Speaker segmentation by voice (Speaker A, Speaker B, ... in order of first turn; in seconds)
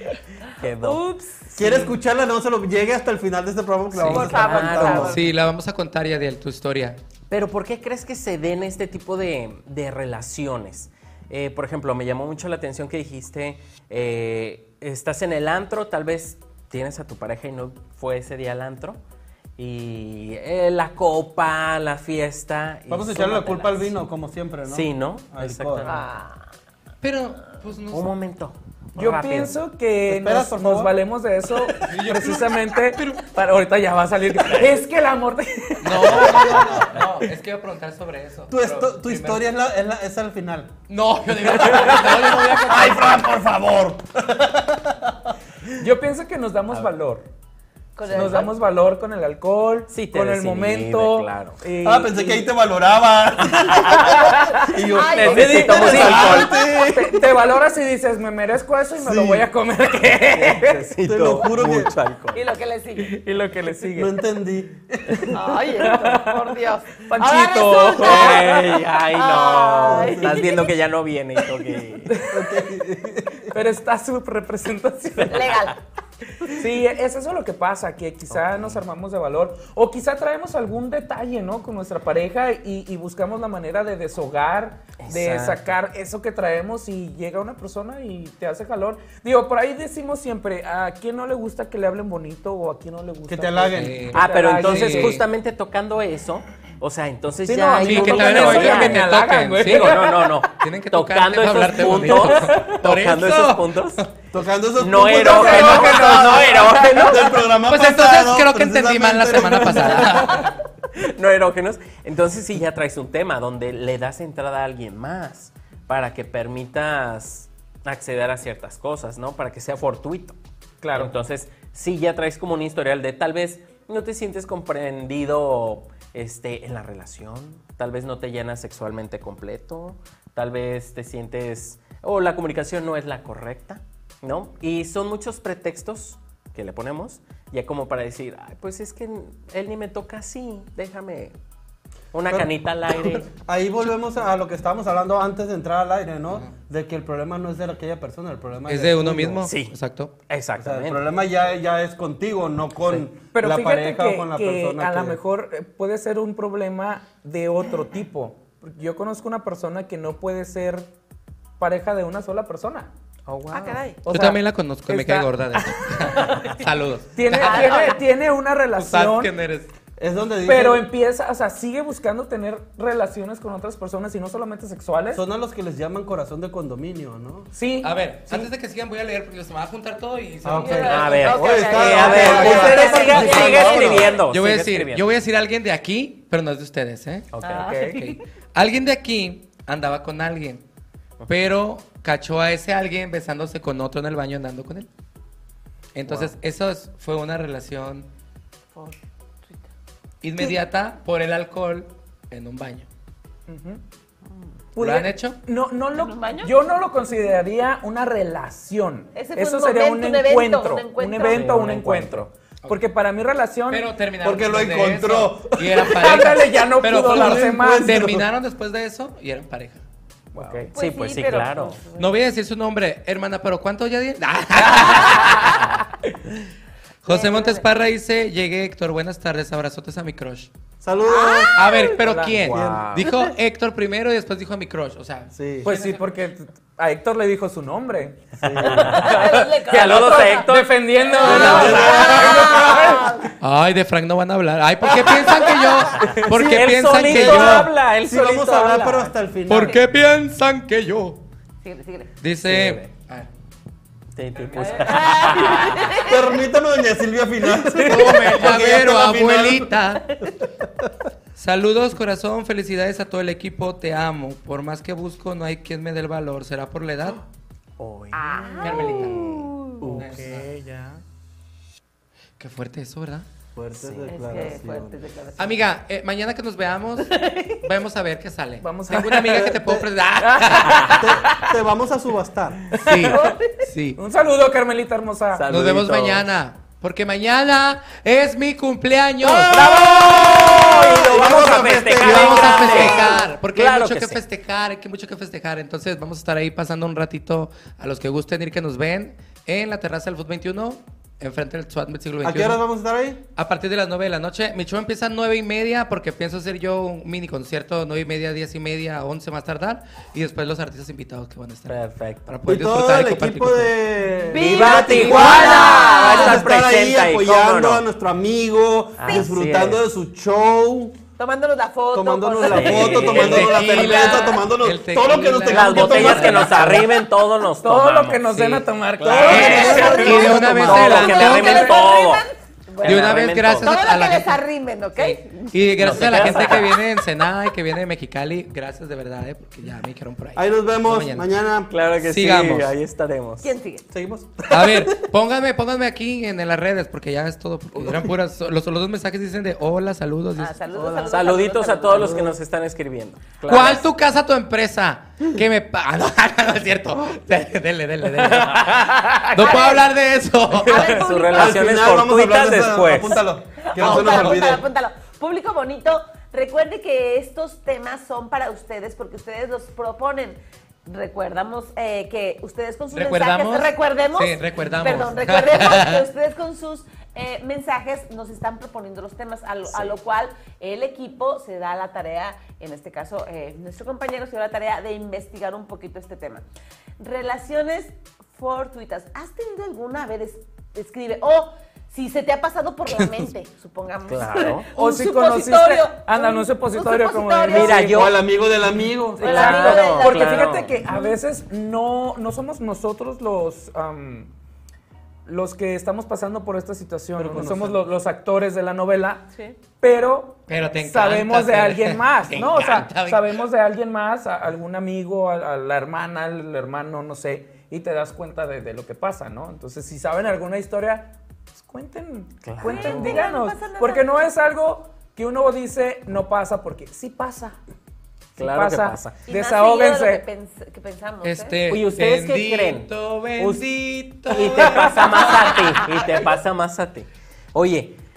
Speaker A: 0.6-1.0, 3.9-5.2, 7.3-19.0, 19.6-23.9, 24.7-26.1, 27.9-29.6, 49.9-51.6, 55.2-56.5, 60.3-62.4, 68.0-72.2, 78.3-78.8, 85.0-85.7, 94.1-99.1, 99.6-104.0, 104.8-107.3, 111.0-120.4, 121.0-141.3, 142.1-143.3, 149.4-149.8, 150.3-151.0, 163.5-163.8, 180.9-185.1, 187.3-187.7, 196.1-196.3, 211.3-212.2, 220.4-221.8, 232.4-233.1, 238.4-239.2, 239.7-240.8, 241.3-241.9, 246.1-249.1, 252.4-252.9, 254.2-255.9, 267.8-270.9, 273.8-274.6, 285.3-286.2, 289.5-294.2, 311.7-312.3, 314.4-317.8, 319.0-319.8, 322.4-323.6, 325.4-328.3, 329.0-332.2, 332.8-333.7, 335.8-336.8, 341.7-343.5, 351.0-353.9, 360.8-363.2, 394.1-394.7, 397.5-398.2, 399.2-400.7, 422.4-423.3, 428.4-429.2, 431.7-433.6, 434.3-438.0
Speaker B: 0.8-1.5, 4.0-5.4, 25.8-26.4, 48.0-48.5, 54.1-56.6, 62.3-63.2, 65.3-68.6, 69.1-70.7, 75.2-75.8, 163.5-164.0, 167.4-168.0, 180.6-184.1, 187.4-188.2, 198.7-199.7, 205.9-206.6, 209.2-211.7, 220.7-222.2, 225.2-225.6, 227.1-227.7, 231.0-231.9, 233.0-233.3, 238.7-243.3, 251.6-252.2, 254.6-256.4, 268.1-269.8, 274.1-275.6, 277.0-277.6, 283.1-283.6, 314.3-316.6, 319.1-319.4, 321.2-324.4, 329.4-336.6, 343.4-343.9, 350.4-352.3, 353.5-353.8, 359.4-359.9, 360.7-361.8, 363.6-386.4, 387.0-397.8, 399.2-401.2, 422.6-424.1, 429.3-431.6
Speaker C: 1.6-5.2, 22.9-25.9, 30.1-30.9, 38.5-40.7, 41.7-45.3, 51.8-57.3, 59.0-59.5, 61.0-62.0, 64.0-65.3, 69.8-70.5, 72.3-73.5, 93.3-94.1, 104.3-110.3, 142.3-149.5, 150.6-155.2, 170.0-170.9, 175.1-177.5, 180.4-184.2, 214.2-216.0, 217.0-218.3, 230.8-231.6, 232.4-232.9, 235.3-235.7, 238.4-239.0, 241.2-242.9, 246.3-249.8, 256.0-259.8, 260.4-260.9, 273.6-275.0, 279.3-279.9, 281.0-282.7, 289.5-293.2, 302.2-303.2, 312.5-321.0, 321.9-326.8, 329.1-331.1, 340.4-341.7, 343.9-345.0, 347.8-348.1, 361.3-364.6, 397.8-399.6, 407.2-407.8
Speaker D: 4.0-4.3, 5.0-7.0, 27.0-28.1, 31.8-33.2, 35.8-39.4, 40.9-43.2, 93.7-95.3, 97.8-104.0, 105.4-105.8, 107.7-110.5, 148.7-150.1, 164.1-167.9, 168.8-169.7, 177.8-181.3, 182.0-187.3, 187.9-190.6, 191.3-194.9, 195.9-198.1, 200.2-202.9, 204.8-205.4, 213.7-219.8, 222.0-225.7, 227.0-230.5, 231.5-236.1, 243.4-247.7, 249.5-251.2, 252.2-253.3, 257.8-260.1, 261.4-267.2, 268.6-269.3, 269.9-270.5, 272.4-273.3, 275.4-281.1, 282.8-284.0, 285.5-289.6, 292.0-302.6, 303.4-313.7, 315.0-315.3, 322.9-326.9, 328.3-328.6, 329.3-331.8, 332.8-334.4, 335.0-341.3, 342.0-342.7, 344.5-350.6, 353.5-360.9, 363.8-364.3, 372.9-376.1, 410.5-413.4, 431.2-435.7
Speaker E: 29.0-36.9, 45.8-47.3, 48.1-52.5, 53.7-54.6, 55.2-60.8, 63.0-64.2, 65.8-66.3, 67.1-68.8, 72.1-72.4, 73.5-75.5, 76.5-95.2, 97.5-100.4, 101.9-102.2, 105.5-107.2, 120.8-121.1, 153.3-160.9, 161.6-165.8, 167.2-169.3, 170.4-175.2, 177.5-178.5, 182.6-182.9, 187.5-188.1, 203.5-203.8, 204.8-213.9, 215.9-218.0, 220.3-220.7, 232.0-232.4, 235.6-238.2, 239.0-243.2, 257.8-258.2, 270.0-270.9, 278.6-279.4, 280.2-281.5, 282.7-283.4, 284.0-285.4, 327.6-330.4, 331.3-331.7, 358.2-359.4, 394.8-398.1, 399.1-404.3, 405.3-409.3, 409.8-427.6, 428.4-430.3